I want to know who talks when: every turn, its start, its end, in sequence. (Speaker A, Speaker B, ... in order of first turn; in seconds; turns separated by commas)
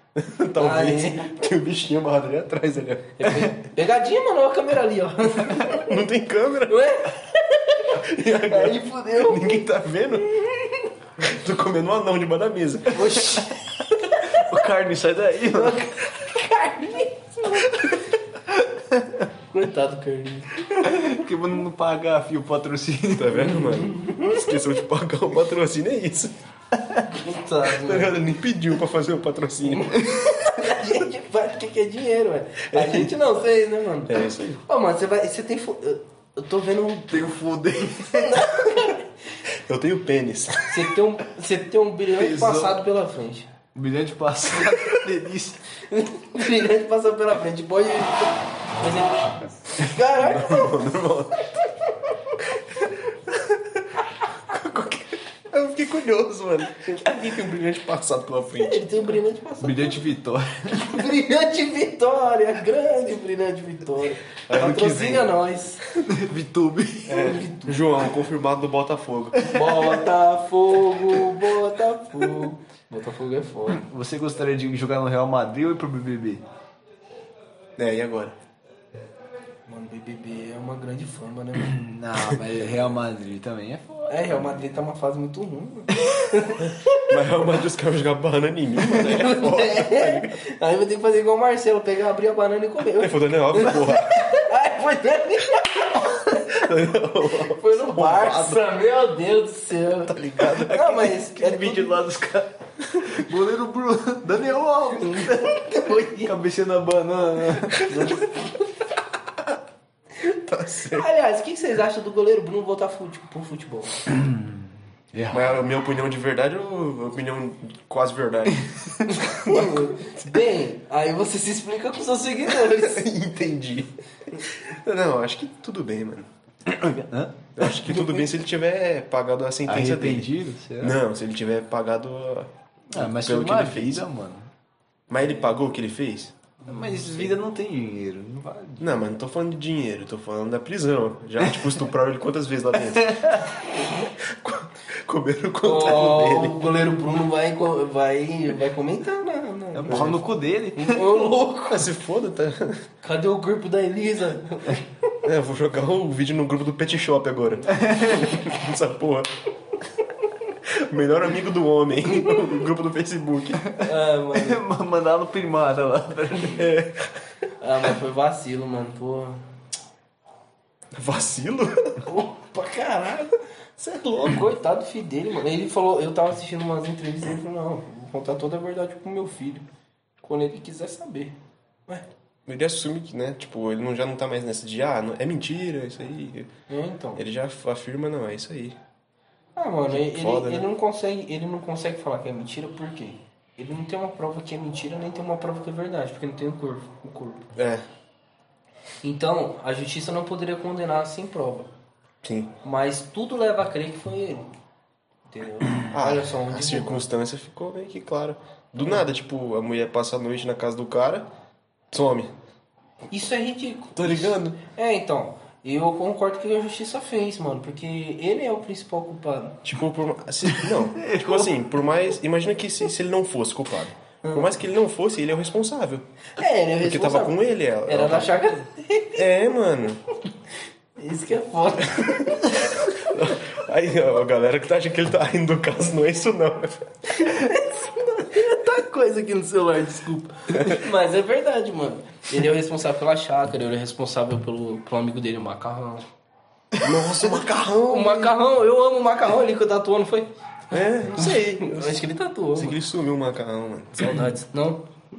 Speaker A: 0.2-3.5, Speaker B: 0.6-1.4, Speaker B: 3.2-5.9, Speaker A: 5.6-7.0, Speaker B: 6.7-9.7, Speaker A: 8.0-10.4, Speaker B: 10.3-10.9, Speaker A: 11.2-13.4, Speaker B: 12.9-14.5, Speaker C: 14.3-15.8, Speaker B: 15.5-18.0, Speaker C: 18.7-19.2, Speaker B: 19.5-20.7, Speaker C: 20.7-23.7, Speaker A: 23.1-26.3, Speaker B: 23.6-24.5, Speaker B: 27.1-28.2, Speaker A: 27.7-30.5, Speaker B: 29.7-37.3, Speaker A: 32.7-33.1, Speaker A: 34.1-34.6, Speaker C: 37.1-38.4, Speaker B: 38.0-39.1, Speaker A: 39.6-40.9, Speaker B: 40.7-43.5, Speaker C: 42.1-42.8, Speaker C: 43.7-45.6, Speaker B: 45.9-50.8, Speaker A: 50.2-51.6, Speaker A: 53.3-53.8, Speaker A: 54.5-58.8, Speaker B: 58.6-60.0, Speaker C: 59.6-61.0, Speaker B: 60.7-65.8, Speaker A: 64.5-65.3, Speaker C: 66.0-67.4, Speaker B: 67.1-67.8, Speaker A: 67.1-69.5, Speaker B: 69.4-73.8, Speaker C: 73.7-76.4, Speaker A: 77.8-78.4, Speaker B: 79.7-81.8, Speaker C: 81.6-84.7, Speaker B: 84.1-87.2, Speaker A: 87.0-90.4, Speaker B: 88.8-96.7, Speaker A: 93.0-94.3, Speaker A: 96.5-98.6, Speaker B: 97.5-102.0, Speaker A: 100.1-101.0, Speaker C: 100.6-107.9, Speaker B: 105.0-106.3, Speaker B: 107.8-108.6, Speaker A: 110.3-111.1, Speaker B: 110.9-114.0, Speaker C: 114.1-115.6, Speaker A: 115.3-120.1, Speaker B: 119.0-123.0, Speaker A: 122.6-126.3, Speaker C: 126.7-127.5, Speaker A: 127.6-130.3, Speaker C: 129.7-131.0, Speaker A: 130.8-134.0, Speaker C: 132.9-134.5, Speaker A: 135.1-136.3, Speaker C: 136.7-139.0, Speaker B: 136.7-137.3, Speaker A: 138.8-146.7, Speaker C: 142.8-143.5, Speaker B: 145.6-150.2, Speaker C: 149.7-151.2, Speaker A: 149.9-150.2, Speaker B: 150.8-151.9, Speaker A: 151.7-152.8, Speaker B: 153.0-155.1, Speaker A: 155.2-159.3, Speaker C: 157.8-158.1, Speaker A: 160.7-163.7, Speaker B: 163.8-164.6, Speaker C: 164.3-166.7, Speaker A: 166.6-167.1, Speaker B: 167.6-169.4, Speaker A: 170.9-172.0, Speaker B: 172.0-179.7, Speaker B: 180.2-181.4, Speaker A: 182.5-186.5, Speaker B: 186.7-187.2, Speaker A: 187.2-188.8, Speaker B: 189.6-197.5, Speaker A: 189.9-190.7, Speaker A: 197.6-197.8, Speaker B: 199.0-201.7, Speaker A: 202.2-202.5, Speaker B: 202.6-204.5, Speaker B: 205.3-207.0, Speaker A: 205.9-211.3, Speaker A: 211.9-212.3, Speaker B: 213.1-219.6, Speaker A: 214.0-214.6, Speaker A: 219.6-226.1, Speaker C: 220.5-221.5, Speaker B: 226.4-229.2, Speaker A: 226.8-228.4, Speaker A: 229.2-230.0, Speaker B: 231.0-232.9, Speaker A: 232.7-236.9, Speaker B: 237.1-246.1, Speaker C: 246.8-247.0, Speaker A: 246.8-248.3, Speaker B: 247.9-252.8, Speaker A: 250.7-254.3, Speaker B: 254.0-254.9